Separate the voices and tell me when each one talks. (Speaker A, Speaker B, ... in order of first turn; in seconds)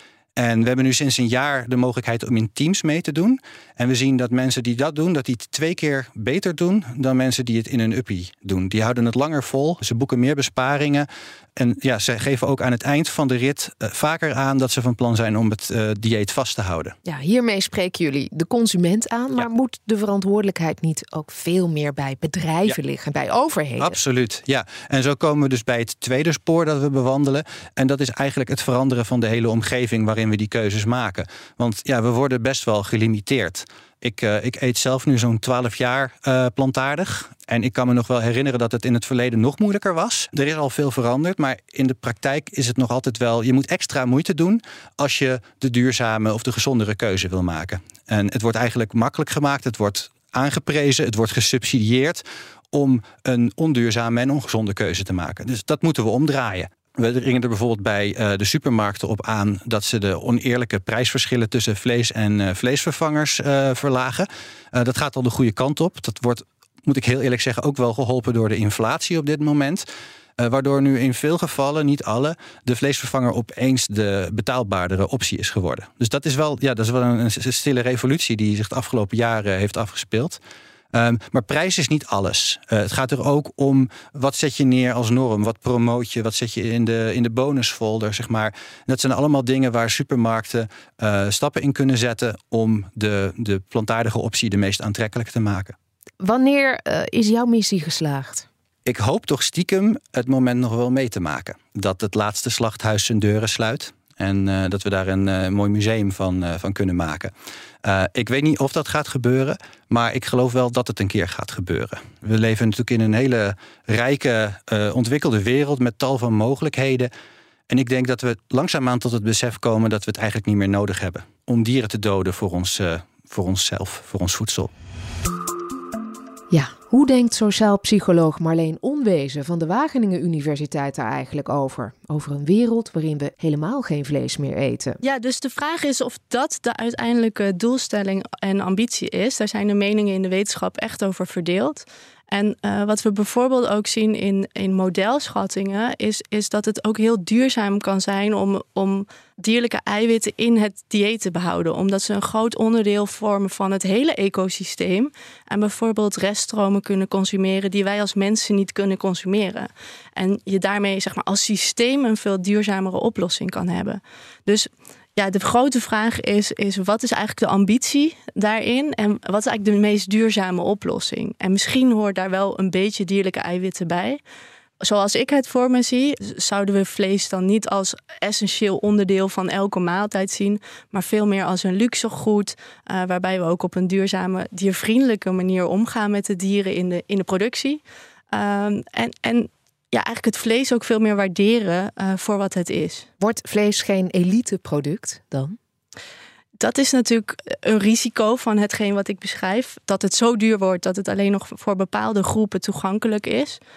Speaker A: 0.4-16.9, 23.8-69.8, 70.4-80.4, 80.9-95.7, 98.9-107.3, 107.8-117.1, 117.7-124.7
Speaker B: 17.1-24.0, 96.2-98.5, 126.5-135.0, 193.2-195.6
Speaker C: 135.0-174.2, 174.8-193.1, 196.6-203.6